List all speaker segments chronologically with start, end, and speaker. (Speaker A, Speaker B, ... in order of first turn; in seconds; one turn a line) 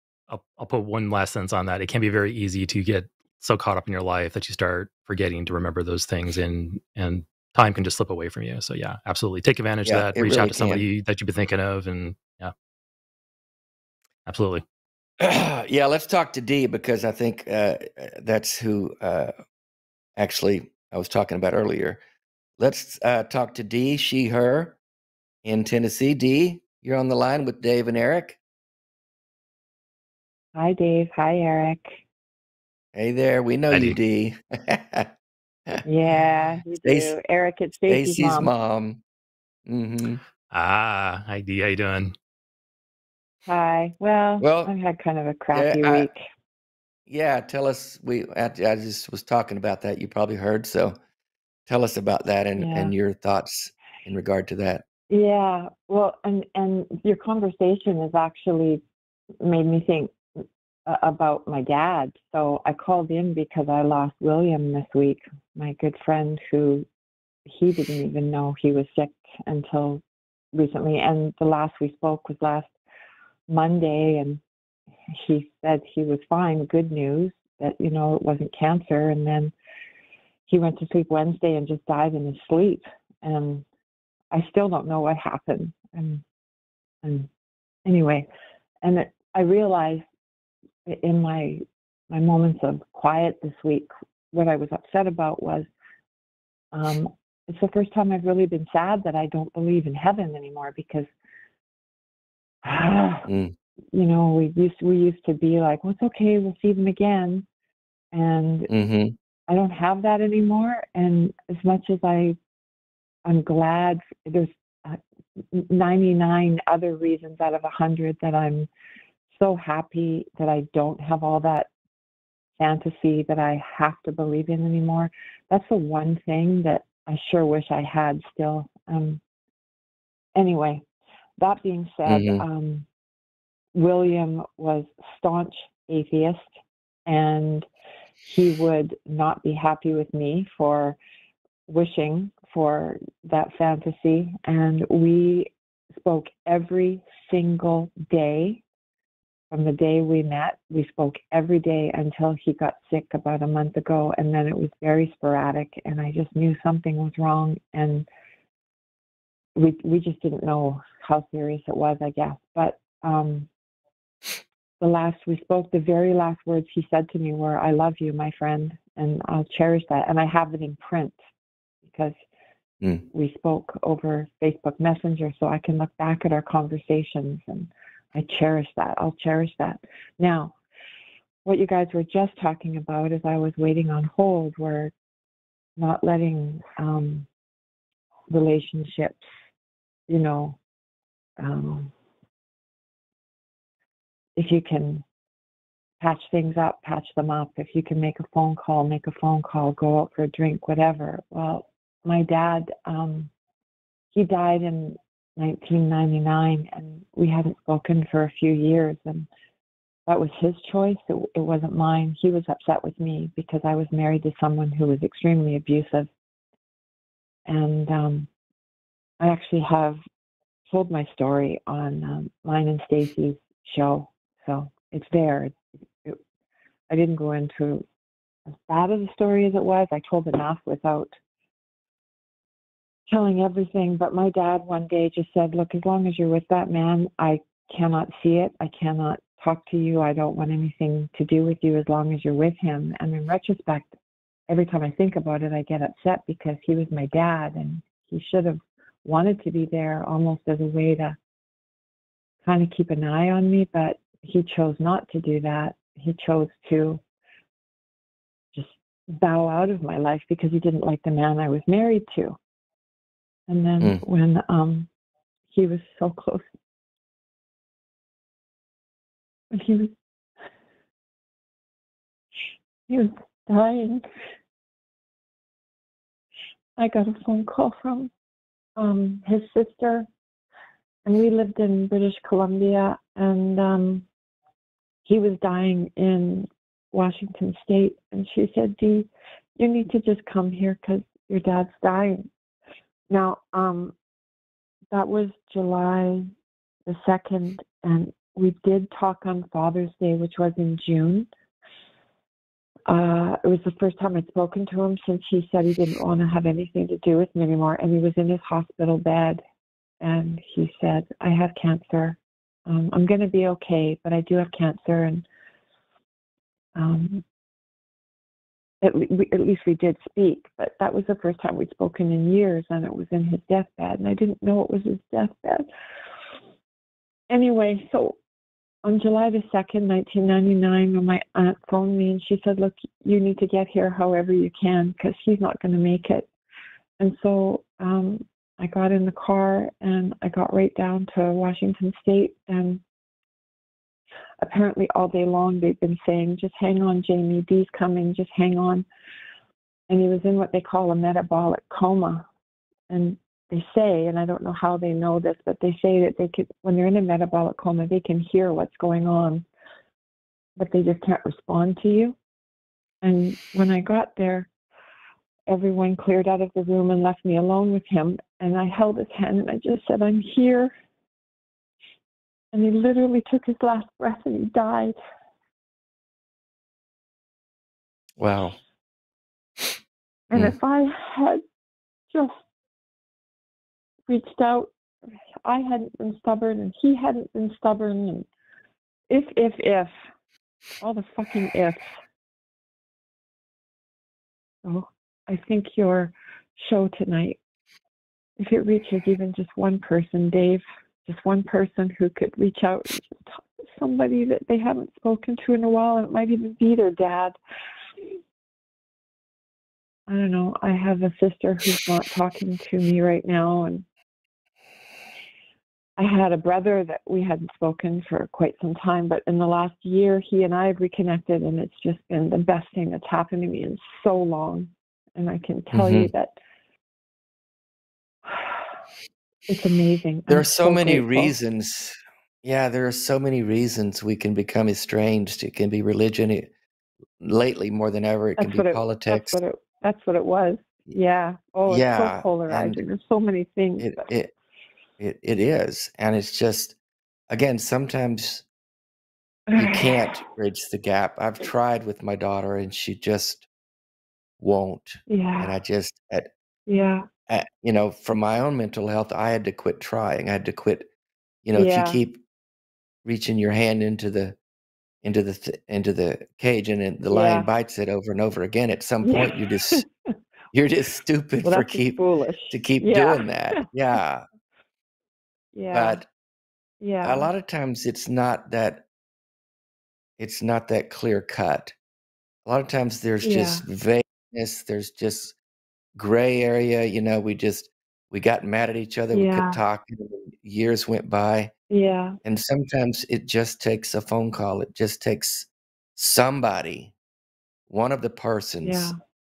Speaker A: 0.3-12.5
Speaker B: 9.8-10.9
Speaker A: 14.3-14.6
Speaker B: 15.2-19.3
Speaker B: 20.2-22.0
Speaker B: 22.6-24.8
Speaker B: 25.4-28.4
Speaker C: 30.6-32.0
Speaker B: 32.9-35.1
Speaker A: 33.7-34.0
Speaker C: 35.8-38.5
Speaker B: 36.8-37.1
Speaker B: 37.8-39.0
Speaker B: 39.7-40.2
Speaker A: 40.5-42.1
Speaker C: 43.5-46.2
Speaker B: 44.4-44.7
Speaker B: 45.5-46.1
Speaker B: 47.1-51.0
Speaker B: 51.7-54.8
Speaker C: 52.6-52.9
Speaker C: 55.1-58.8
Speaker C: 59.4-66.9
Speaker C: 67.5-70.0
Speaker C: 70.5-72.7
Speaker C: 73.5-74.4
Speaker C: 75.1-79.5
Speaker C: 80.5-83.7
Speaker C: 84.3-86.2
Speaker C: 87.0-87.3
Speaker C: 87.8-88.3
Speaker C: 88.8-90.0
Speaker C: 90.9-95.7
Speaker C: 96.7-101.1
Speaker C: 102.6-103.3
Speaker B: 103.3-103.5
Speaker C: 103.9-107.5
Speaker C: 108.1-108.7
Speaker B: 108.7-109.2
Speaker C: 109.5-112.4
Speaker C: 113.2-115.0
Speaker C: 115.5-118.7
Speaker C: 119.3-121.7
Speaker C: 122.6-129.2
Speaker C: 130.3-130.8
Speaker C: 131.4-132.9
Speaker B: 132.1-132.4
Speaker C: 133.8-136.4
Speaker C: 137.1-137.7
Speaker C: 138.3-141.0
Speaker C: 141.7-148.6
Speaker C: 149.5-158.1
Speaker C: 159.6-163.5
Speaker C: 164.8-171.2
Speaker C: 171.8-172.2
Speaker C: 173.1-180.6
Speaker C: 181.4-184.9
Speaker C: 185.8-187.3
Speaker C: 188.3-189.2
Speaker C: 190.1-190.6
Speaker C: 191.4-191.9
Speaker C: 194.4-195.0
Speaker C: 196.0-203.3
Speaker C: 204.1-209.3
Speaker C: 210.1-216.1
Speaker C: 217.5-218.3
Speaker C: 219.2-220.0
Speaker C: 220.7-226.2
Speaker C: 226.9-227.8
Speaker C: 228.7-231.1
Speaker C: 233.1-243.9
Speaker C: 244.5-251.2
Speaker C: 252.4-257.0
Speaker C: 258.5-262.4
Speaker C: 263.5-264.9
Speaker C: 265.5-266.5
Speaker C: 269.5-269.9
Speaker C: 272.9-274.1
Speaker C: 276.8-278.1
Speaker C: 278.8-280.1
Speaker C: 281.1-284.1
Speaker C: 285.1-292.2
Speaker C: 293.1-293.9
Speaker C: 294.9-296.3
Speaker C: 296.9-301.3
Speaker C: 302.9-309.4
Speaker C: 310.0-315.3
Speaker C: 316.8-317.2
Speaker C: 318.8-325.7
Speaker C: 327.3-328.2
Speaker C: 328.8-336.3
Speaker C: 337.0-342.8
Speaker C: 344.4-348.9
Speaker C: 349.9-352.2
Speaker C: 352.9-359.4
Speaker C: 360.6-362.2
Speaker C: 363.0-364.5
Speaker C: 365.5-370.7
Speaker C: 372.5-374.9
Speaker B: 378.2-378.6
Speaker C: 380.3-381.4
Speaker C: 382.1-382.4
Speaker C: 384.1-384.7
Speaker C: 385.4-388.3
Speaker C: 389.1-389.9
Speaker C: 390.8-391.9
Speaker C: 394.6-397.4
Speaker C: 398.4-407.4
Speaker C: 410.1-413.9
Speaker C: 416.0-426.3
Speaker B: 425.7-426.1
Speaker C: 428.3-428.8
Speaker C: 429.5-431.3
Speaker B: 430.3-436.5
Speaker B: 437.2-439.4
Speaker C: 438.4-444.1
Speaker B: 441.7-442.8
Speaker B: 443.8-444.3
Speaker B: 445.0-446.8
Speaker B: 447.3-448.4
Speaker C: 449.5-450.1
Speaker B: 449.6-453.5
Speaker B: 454.4-456.3
Speaker C: 455.1-455.6
Speaker C: 456.7-457.1
Speaker B: 457.3-460.9
Speaker B: 461.4-462.2
Speaker C: 461.6-462.0
Speaker B: 463.1-464.4
Speaker B: 465.0-469.8
Speaker C: 467.1-467.5
Speaker C: 469.0-469.9
Speaker B: 470.5-474.2
Speaker C: 471.4-473.7
Speaker C: 475.5-476.0
Speaker B: 475.7-476.1
Speaker C: 476.8-477.3
Speaker B: 477.0-478.9
Speaker B: 480.2-481.8
Speaker B: 482.5-485.4
Speaker C: 483.2-483.6
Speaker B: 486.0-491.5
Speaker C: 489.1-489.6
Speaker C: 491.7-492.2
Speaker B: 492.2-496.9
Speaker B: 497.7-498.9
Speaker C: 498.6-499.0